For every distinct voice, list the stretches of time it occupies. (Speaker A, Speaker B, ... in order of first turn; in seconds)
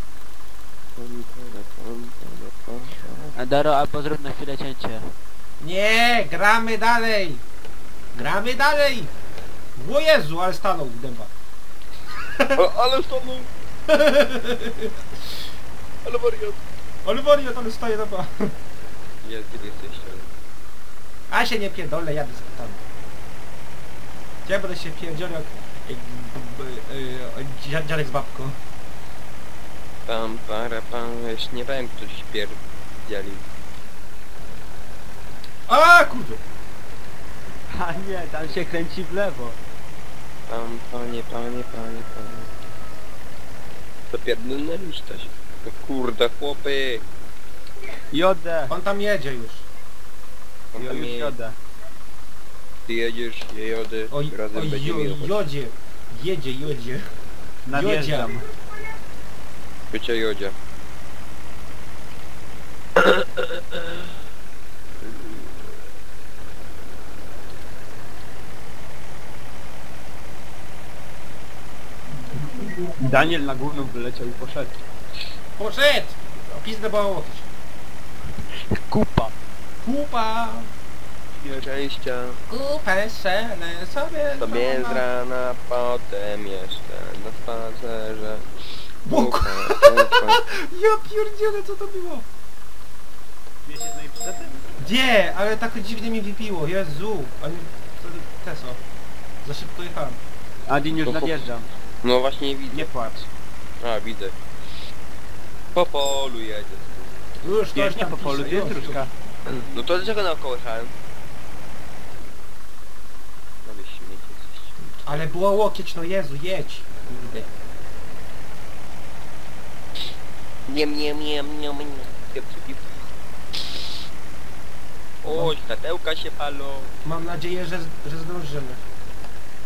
Speaker A: 1.0-3.4, 12.5-13.5, 16.0-16.6, 19.2-20.3, 30.1-33.5, 40.5-42.5, 44.1-47.0, 50.7-51.3, 52.9-55.4, 59.9-60.5, 63.0-64.0, 81.5-82.4, 84.3-88.5, 89.0-90.4, 100.9-101.4, 102.0-102.9, 103.8-104.3, 105.8-107.3, 109.5-110.9, 113.6-115.3, 120.7-123.0, 125.2-126.9
Speaker B: 3.4-5.1, 37.7-39.6, 48.1-48.7, 50.8-51.5, 57.6-58.4, 72.3-74.8, 78.5-79.3, 93.6-94.6, 100.7-101.7, 102.7-103.3, 107.7-109.1
Speaker C: 5.6-7.4, 8.1-9.1, 9.8-11.3, 12.3-12.6, 13.9-15.4, 17.0-18.5, 21.3-22.8, 24.4-28.6, 35.7-36.4, 48.7-49.7, 54.1-57.0, 57.7-58.3, 75.6-77.5, 79.8-80.7, 82.5-85.0, 89.0-92.2, 94.8-98.8, 99.4-100.2, 107.4-109.0, 114.9-117.5, 125.2-125.5, 127.0-128.8